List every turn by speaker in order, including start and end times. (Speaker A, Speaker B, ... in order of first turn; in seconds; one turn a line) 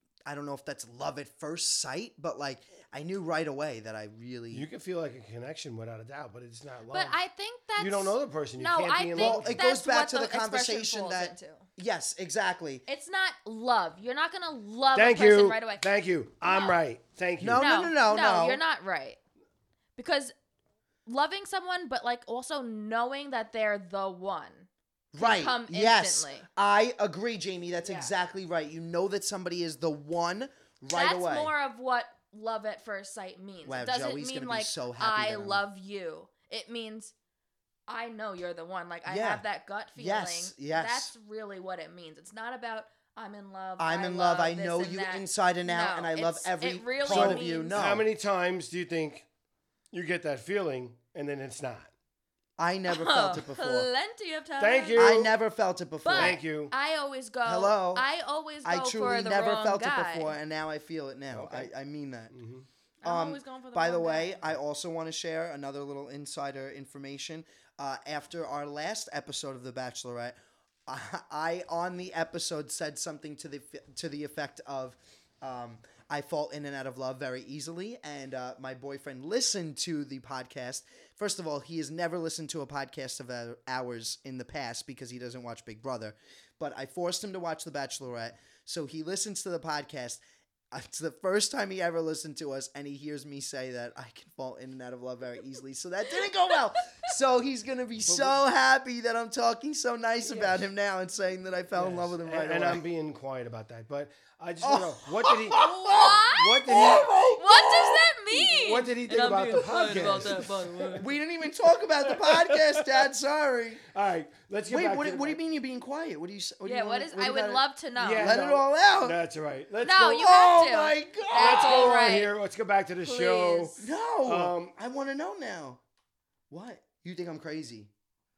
Speaker A: 0.3-4.7
Speaker B: 4.5-7.2
Speaker C: 6.9-11.7
Speaker B: 7.8-9.6
Speaker A: 9.1-12.8
Speaker C: 12.9-15.8
Speaker B: 14.9-17.6
Speaker C: 16.4-16.8
Speaker A: 17.4-18.6
Speaker C: 17.6-19.2
Speaker C: 20.0-20.3
Speaker C: 21.1-26.5
Speaker A: 25.1-31.5
Speaker C: 27.8-28.1
Speaker C: 30.9-37.1
Speaker A: 33.6-35.6
Speaker C: 37.9-47.8
Speaker A: 39.1-39.5
Speaker A: 40.0-41.1
Speaker A: 43.8-48.1
Speaker B: 47.1-49.3
Speaker B: 49.9-51.9
Speaker A: 52.6-53.9
Speaker C: 52.9-55.1
Speaker B: 54.6-55.3
Speaker A: 55.0-56.4
Speaker C: 56.0-60.4
Speaker B: 56.1-56.7
Speaker A: 57.5-58.1
Speaker A: 58.6-62.3
Speaker B: 61.3-61.7
Speaker B: 62.3-62.7
Speaker C: 63.0-64.4
Speaker A: 63.0-70.3
Speaker A: 70.9-102.8
Speaker B: 98.1-98.4
Speaker B: 100.2-100.6
Speaker B: 101.7-107.3
Speaker A: 104.6-108.1
Speaker C: 105.5-111.0
Speaker B: 108.3-111.0
Speaker A: 111.0-113.8
Speaker B: 112.0-113.1
Speaker B: 113.9-115.4
Speaker A: 114.7-117.7
Speaker C: 116.7-118.4
Speaker B: 118.0-120.3
Speaker A: 118.2-119.2
Speaker C: 119.8-122.3
Speaker A: 120.2-122.1
Speaker B: 121.3-124.8
Speaker C: 123.0-123.8
Speaker A: 123.8-125.8
Speaker A: 126.5-127.9